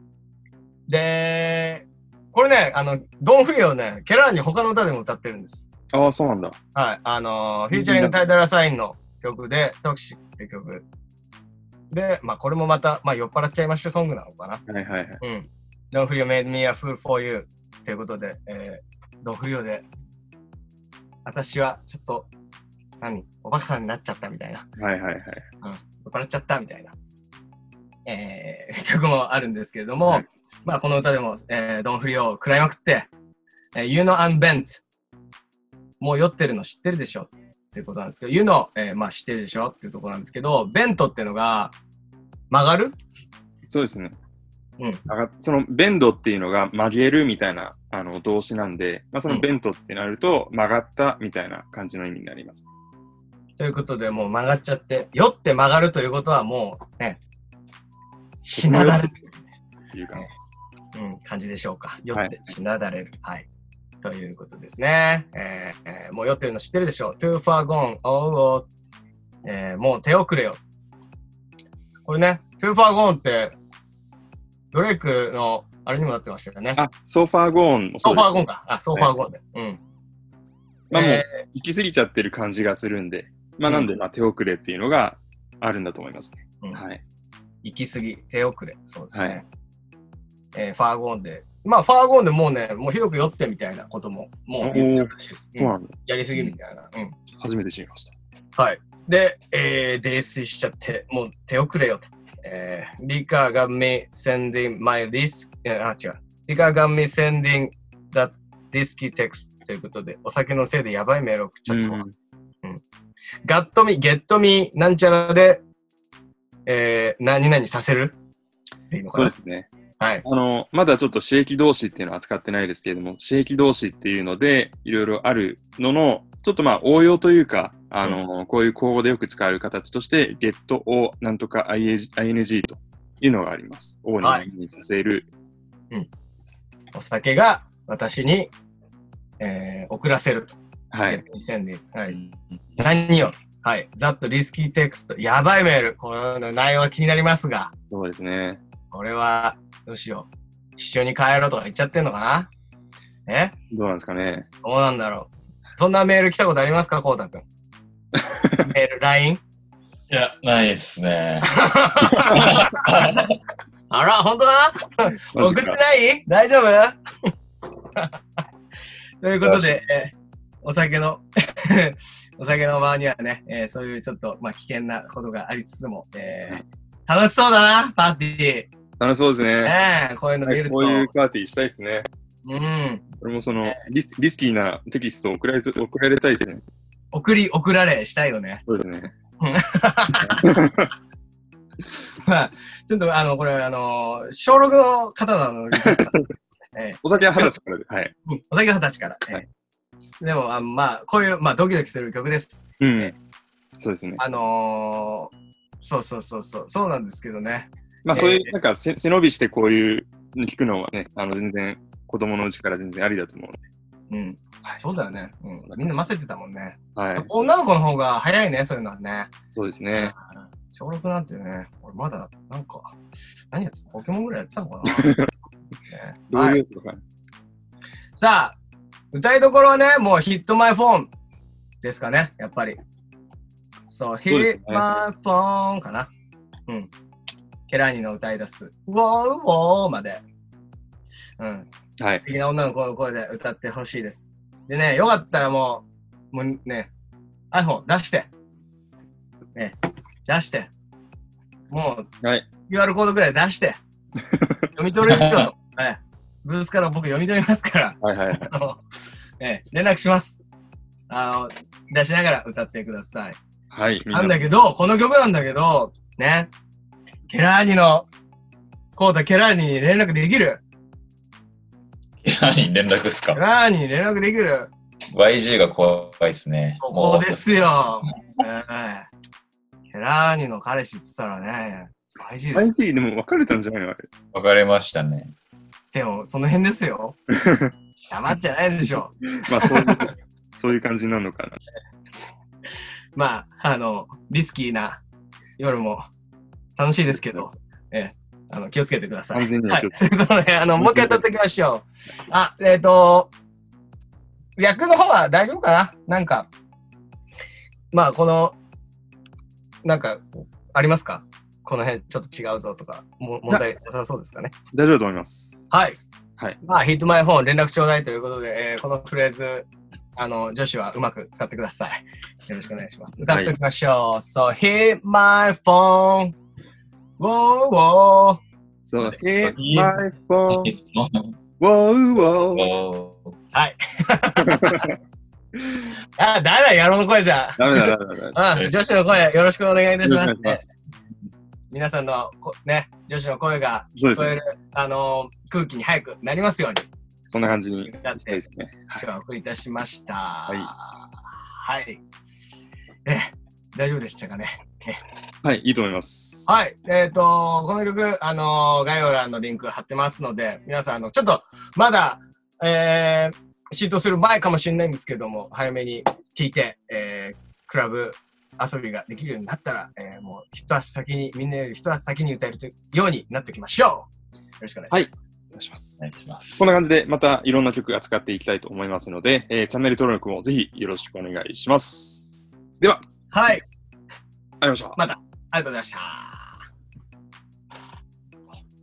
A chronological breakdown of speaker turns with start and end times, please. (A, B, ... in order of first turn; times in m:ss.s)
0:00.9-0:05.7 A
0:05.9-0:06.6 B
0:06.7-0:10.8 A
0:07.7-0:08.1 B
0:11.9-0:14.6 A
0:14.7-0:15.2 B
0:15.2-0:19.9 A
0:21.2-0:22.3 A
0:23.0-0:24.6 A
0:24.8-0:25.4 B
0:25.6-0:27.0 A
0:28.1-0:33.1 A
0:33.7-0:34.8 A
0:36.0-0:41.8 A
0:42.5-0:43.0 A
0:43.7-0:44.2 B
0:45.1-0:52.6 B
0:53.6-0:57.2 A
0:58.4-0:59.4 A
0:58.5-0:59.1 B
0:59.9-1:00.4 B
1:01.0-1:03.5 A
1:04.0-1:08.7 A
1:09.4-1:10.6 A
1:12.0-1:13.6 A
1:14.7-1:16.8 A
1:16.8-1:19.1 B
1:18.0-1:19.8 A
1:20.9-1:27.0 B
1:20.9-1:21.2 A
1:27.6-1:29.4 A
1:29.1-1:29.4 B
1:30.5-1:37.2 A
1:34.6-1:36.6 B
1:37.4-1:38.2 B
1:38.6-1:52.0 A
1:51.7-1:52.1 B
1:53.4-1:55.6 A
1:56.7-1:58.2 A
1:58.9-1:59.3 A
1:59.1-1:59.7 B
2:00.2-2:15.3 B
2:16.9-2:18.5 A
2:19.4-2:22.2 A
2:20.9-2:21.2 B
2:22.8-2:27.7 A
2:27.9-2:28.6 B
2:28.9-2:32.5 A
2:33.3-2:33.5 A
2:33.7-2:34.5 B
2:34.6-2:37.4 A
2:38.6-2:39.4 A
2:40.1-2:41.6 C
2:41.5-2:43.1 A
2:42.2-2:43.3 C
2:43.9-2:47.0 A
2:45.4-2:45.8 B
2:49.2-2:58.7 A
2:49.4-2:49.7 B
2:59.0-2:59.8 B
2:59.6-3:01.1 A
3:00.4-3:02.1 B
3:02.4-3:03.0 A
3:03.2-3:06.6 B
3:07.1-3:08.6 A
3:08.7-3:09.1 B
3:09.4-3:10.5 A
3:10.2-3:10.9 B
3:12.2-3:16.2 A
3:15.8-3:16.2 B
3:16.8-3:17.6 A
3:17.0-3:18.1 B
3:18.3-3:19.4 A
3:20.2-3:23.1 A
3:22.8-3:23.1 B
3:23.8-3:24.2 B
3:24.2-3:28.5 A
3:28.0-3:33.6 B
3:34.1-3:39.3 A
3:35.6-3:36.1 B
3:37.0-3:37.3 B
3:39.5-3:40.1 B
3:39.9-3:43.0 A
3:43.5-3:45.1 A
3:44.9-3:45.3 B
3:45.9-3:46.6 A
3:46.3-3:47.0 B
3:48.2-3:48.6 A
3:49.1-3:51.1 A
3:51.8-3:52.8 A
3:53.9-3:56.1 A
3:54.3-3:54.9 B
3:57.7-4:00.2 A
4:01.4-4:06.9 A
4:07.5-4:08.3 A
4:09.6-4:10.7 A
4:11.7-4:12.1 A
4:12.7-4:13.8 A
4:14.8-4:18.8 A
4:15.1-4:15.4 C
4:18.0-4:18.5 B
4:19.4-4:20.4 A
4:21.1-4:23.4 A
4:23.7-4:24.4 B
4:24.1-4:26.5 A
4:27.3-4:28.1 A
4:29.0-4:30.6 A
4:32.2-4:33.4 C
4:33.3-4:34.7 A
4:35.1-4:37.7 C
4:36.8-4:39.1 A
4:39.9-4:42.7 A
4:42.5-4:44.1 B
4:44.3-4:45.3 C
4:45.9-4:47.2 A
4:47.5-4:47.7 B
4:48.1-4:50.1 A
4:49.4-4:51.6 B
4:53.2-4:55.0 A
4:55.6-4:56.0 A
4:56.8-5:03.3 A
4:59.3-5:00.0 B
5:00.8-5:01.2 B
5:04.6-5:06.5 A
5:07.9-5:08.6 A
5:09.8-5:14.5 A
5:14.7-5:15.7 B
5:15.7-5:16.0 A
5:16.6-5:26.4 A
5:23.3-5:23.5 B
5:27.2-5:28.4 A
5:28.8-5:30.8 B
5:29.4-5:31.4 C
5:31.6-5:32.6 B
5:32.5-5:33.4 C
5:33.5-5:34.8 A
5:34.5-5:34.9 B
5:36.2-5:40.7 A
5:37.6-5:38.7 B
5:40.0-5:40.6 B
5:41.7-5:46.9 A
5:44.0-5:44.4 B
5:47.3-5:49.0 B
5:47.9-5:48.4 A
5:49.0-5:52.0 A
5:53.1-5:55.0 A
5:55.4-5:56.6 B
5:56.5-6:15.1 A
6:14.9-6:16.0 B
6:16.0-6:16.8 C
6:16.6-6:23.6 B
6:23.3-6:23.6 A
6:24.6-6:25.0 B
6:25.0-6:26.6 A